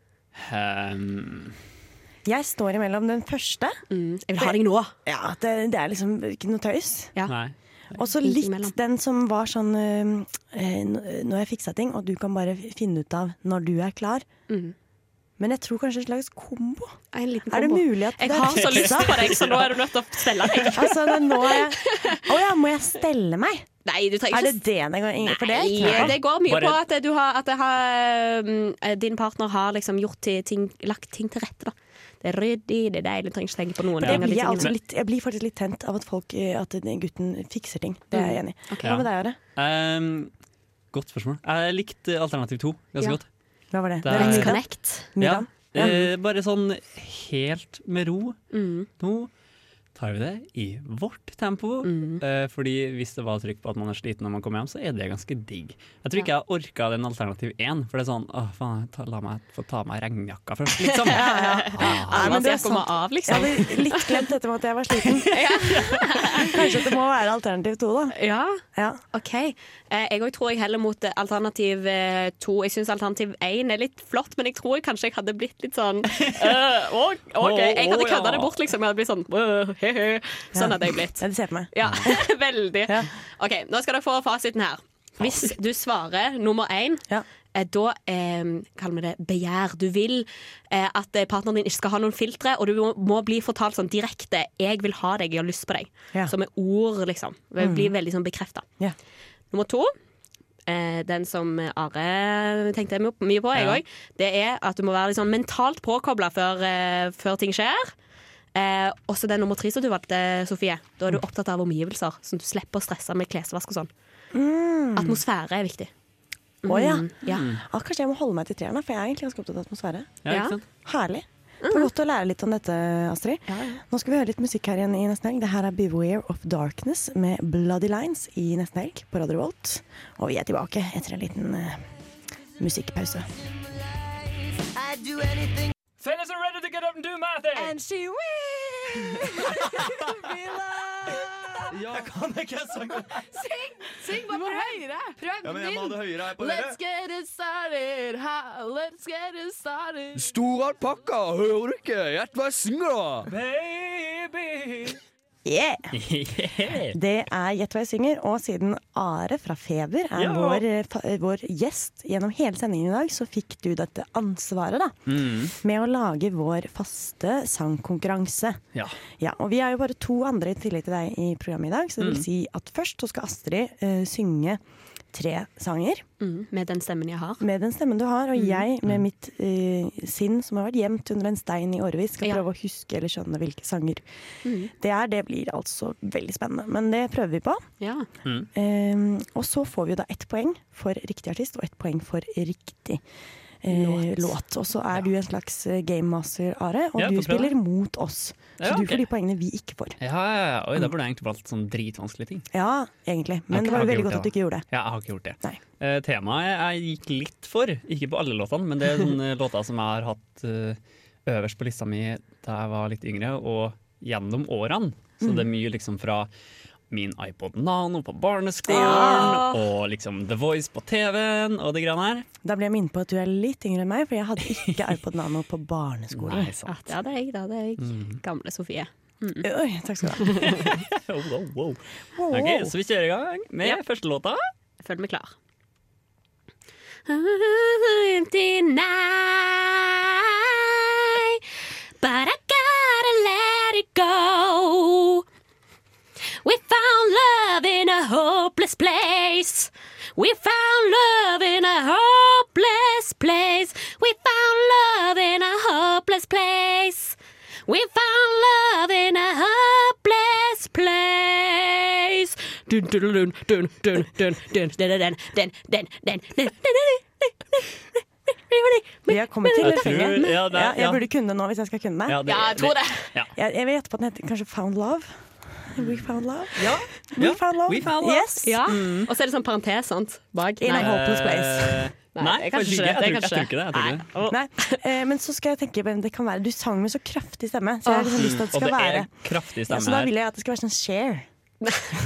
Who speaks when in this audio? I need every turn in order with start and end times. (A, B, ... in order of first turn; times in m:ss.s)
0:00.4-0:01.6 A
0:02.3-0:03.8 B
0:03.9-0:04.9 C
0:04.4-0:07.1 B
0:07.3-0:07.5 A
0:08.0-0:14.2 B
0:08.2-0:08.8 C
0:14.5-0:14.8 C
0:15.4-0:17.0 B
0:17.1-0:22.2 C
0:17.5-0:19.2 B
0:18.6-0:19.7 A
0:20.4-0:20.7 A
0:20.7-0:23.7 B
0:23.8-0:24.6 C
0:24.3-0:26.2 B
0:25.2-0:34.7 C
0:25.8-0:26.8 A
0:34.0-0:34.7 A
0:34.0-0:39.4 B
0:38.1-0:38.9 C
0:38.8-0:40.3 A
0:40.9-0:43.3 A
0:43.7-0:46.1 B
0:44.0-0:44.6 A
0:44.2-0:45.1 C
0:45.2-0:48.4 A
0:48.5-0:48.9 C
0:49.0-0:49.3 A
0:50.0-1:02.4 A
0:51.8-0:52.2 C
1:00.8-1:04.3 C
1:01.1-1:05.8 B
1:05.3-1:06.6 C
1:06.4-1:08.1 B
1:08.1-1:08.6 C
1:08.8-1:09.0 B
1:09.1-1:21.2 C
1:16.1-1:16.6 A
1:17.4-1:18.6 A
1:20.5-1:22.1 B
1:21.7-1:27.0 C
1:25.2-1:25.5 A
1:27.5-1:38.6 C
1:37.6-1:37.9 B
1:39.5-1:39.9 C
1:40.7-1:47.9 C
1:43.6-1:43.8 A
1:48.6-1:53.9 C
1:54.3-1:55.2 B
1:55.0-1:55.9 C
1:56.6-1:57.5 C
1:56.7-2:00.2 B
1:57.3-1:57.6 A
2:00.2-2:00.6 A
2:00.3-2:00.6 C
2:00.8-2:11.8 B
2:01.6-2:01.9 C
2:03.5-2:03.8 C
2:12.6-2:13.3 B
2:16.0-2:30.3 D
2:21.7-2:22.1 E
2:25.4-2:26.8 E
2:30.2-2:33.3 E
2:33.3-2:35.0 D
2:35.5-2:35.9 B
2:35.9-2:37.0 A
2:36.9-2:45.0 B
2:40.2-2:40.6 A
2:45.1-2:45.5 A
2:45.6-2:48.6 B
2:49.2-2:54.6 B
2:52.0-2:52.3 A
2:55.1-2:56.0 B
2:56.2-2:57.4 C
2:57.4-3:04.0 B
2:58.4-2:58.6 C
3:04.4-3:04.7 C
3:04.7-3:07.6 B
3:07.8-3:08.1 C
3:08.6-3:13.0 B
3:13.6-3:20.0 B
3:13.7-3:14.3 C
3:17.0-3:17.5 A
3:18.6-3:19.0 A
3:20.0-3:22.5 A
3:22.5-3:24.7 B
3:23.5-3:36.3 A
3:35.2-3:35.5 B
3:36.9-3:42.3 A
3:38.7-3:39.4 B
3:38.7-3:39.6 C
3:42.4-3:46.5 B
3:46.1-3:47.0 A
3:46.7-3:49.4 C
3:47.8-3:48.2 A
3:49.4-3:50.5 B
3:50.4-3:51.8 A
3:52.2-3:52.7 B
3:52.3-3:54.4 A
3:54.8-3:55.3 C
3:57.1-4:01.4 C
4:02.0-4:05.2 C
4:06.4-4:30.4 C
4:29.1-4:32.2 B
4:29.6-4:31.0 A
4:32.1-4:33.3 A
4:32.3-4:33.2 C
4:33.4-4:38.6 B
4:35.8-4:36.0 A
4:36.6-4:39.1 A
4:38.4-4:40.9 C
4:40.6-4:41.8 B
4:40.7-4:44.1 A
4:42.1-4:44.8 C
4:44.3-4:49.1 B
4:47.9-4:48.2 C
4:48.2-4:50.1 A
4:49.7-4:51.3 B